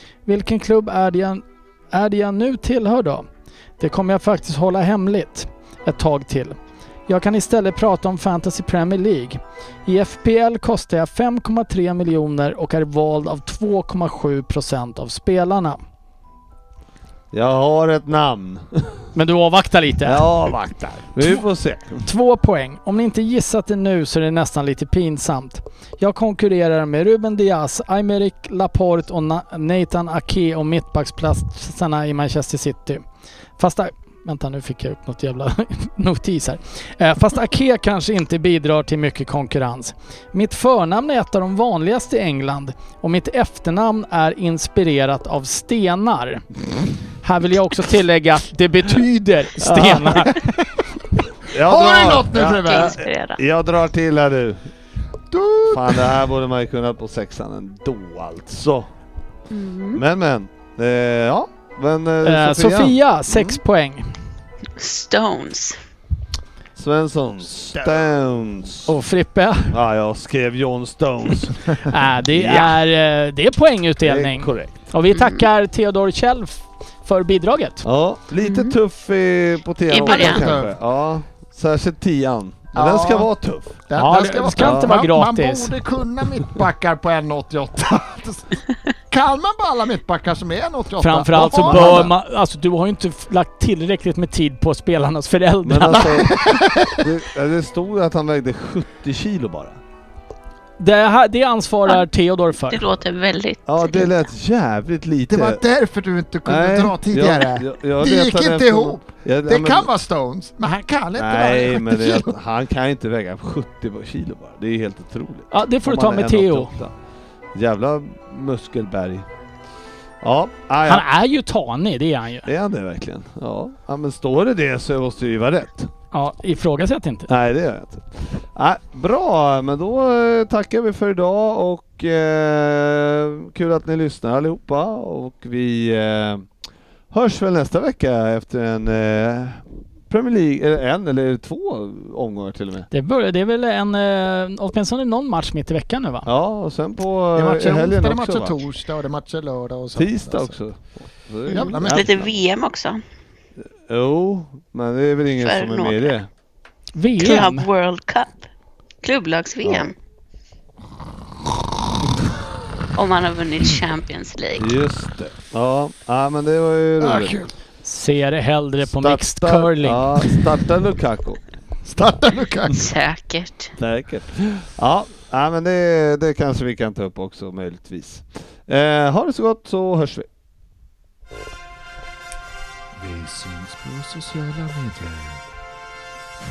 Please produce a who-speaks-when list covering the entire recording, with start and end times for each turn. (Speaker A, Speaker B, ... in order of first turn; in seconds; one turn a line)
Speaker A: 0.2-3.2
Speaker A: 3.8-6.6
Speaker A: 7.1-15.8
Speaker B: 17.3-19.1
Speaker A: 19.1-20.2
Speaker B: 20.0-22.0
Speaker A: 22.0-33.0
Speaker A: 33.6-46.4
Speaker A: 47.2-50.4
Speaker B: 49.6-50.4
Speaker B: 51.5-54.6
Speaker C: 51.5-53.0
Speaker D: 52.6-53.4
Speaker C: 55.3-56.1
Speaker B: 55.7-58.9
Speaker D: 59.5-60.0
Speaker B: 59.9-63.6
Speaker A: 62.2-64.2
Speaker D: 64.8-65.8
Speaker B: 66.8-68.9
Speaker A: 68.8-69.7
Speaker B: 69.7-72.8
Speaker A: 71.8-77.8
Speaker B: 74.0-74.7
Speaker D: 75.1-75.5
Speaker B: 77.8-85.1
Speaker D: 78.4-78.7
Speaker D: 79.9-80.5
Speaker C: 80.0-80.7
Speaker C: 82.7-83.3
Speaker C: 83.9-92.0
Speaker A: 84.0-85.7
Speaker A: 91.0-96.1
Speaker B: 91.3-92.1
Speaker B: 95.6-99.8
Speaker C: 95.9-97.0
Speaker A: 100.8-102.9
Speaker D: 102.7-104.2
Speaker B: 103.7-105.6
Speaker C: 105.3-112.3
Speaker B: 106.4-109.9
Speaker B: 111.2-116.9
Speaker A: 115.5-116.7
Speaker B: 117.5-119.3
Speaker B: 120.2-121.1
Speaker A: 120.8-122.5
Speaker B: 122.5-125.9
Speaker A: 126.1-127.3
Speaker B: 127.3-136.5
Speaker B: 137.1-142.9
Speaker A: 142.9-146.3
Speaker B: 146.2-148.6
Speaker C: 147.3-150.6
Speaker B: 149.9-152.3
Speaker C: 151.5-152.3
Speaker D: 151.5-153.0
Speaker B: 153.9-156.3
Speaker D: 155.4-156.2
Speaker A: 157.0-157.7
Speaker D: 157.2-158.4
Speaker D: 159.0-159.9
Speaker B: 159.6-159.9
Speaker D: 162.9-164.7
Speaker B: 164.6-167.4
Speaker C: 167.0-167.5
Speaker A: 167.8-170.1
Speaker B: 168.8-171.4
Speaker C: 171.8-172.8
Speaker D: 172.7-173.7
Speaker B: 173.8-180.3
Speaker E: 182.9-185.4